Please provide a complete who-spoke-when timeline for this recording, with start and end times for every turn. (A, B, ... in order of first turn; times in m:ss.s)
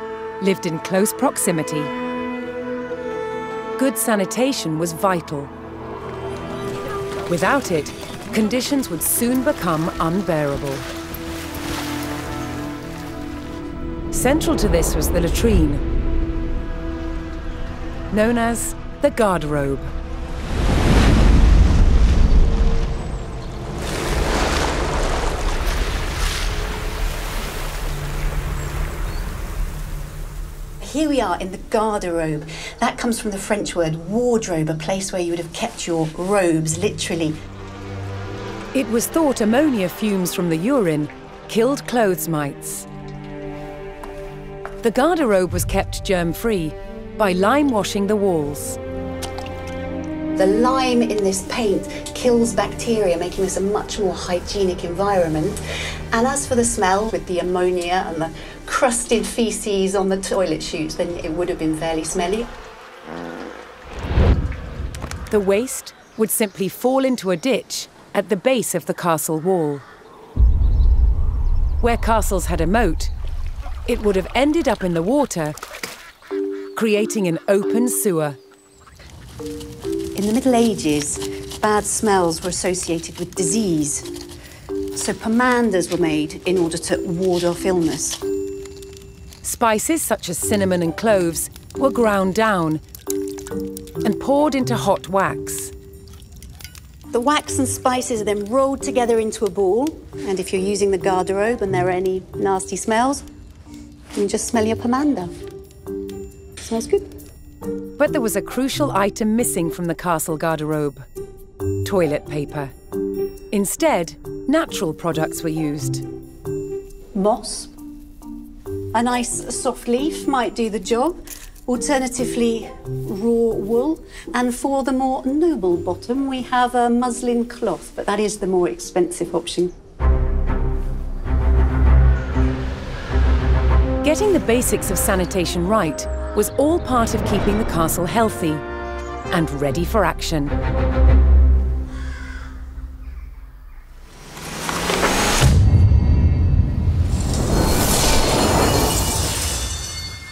0:00.4-0:01.9 A
0:03.8-0:05.5 A
0:07.3-0:10.8 A
0:14.1-0:15.8 A
0:18.1-0:19.9 A
0:30.8-0:37.4 B
0:38.7-0:42.9 A
0:44.8-0:48.8 A
0:50.3-0:55.6 B
0:56.1-1:02.5 B
1:05.3-1:09.8 A
1:11.8-1:13.1 A
1:13.9-1:15.6 A
1:16.7-1:18.4 A
1:20.1-1:24.1 B
1:24.9-1:28.2 B
1:29.4-1:32.8 A
1:34.0-1:35.7 A
1:37.1-1:43.2 B
1:44.1-1:45.3 B
1:46.6-1:47.0 B
1:48.0-1:51.0 A
1:51.8-1:52.7 A
1:53.5-1:56.0 A
1:57.1-1:57.7 B
1:58.9-2:09.7 B
2:14.0-2:18.6 A
2:19.3-2:20.5 A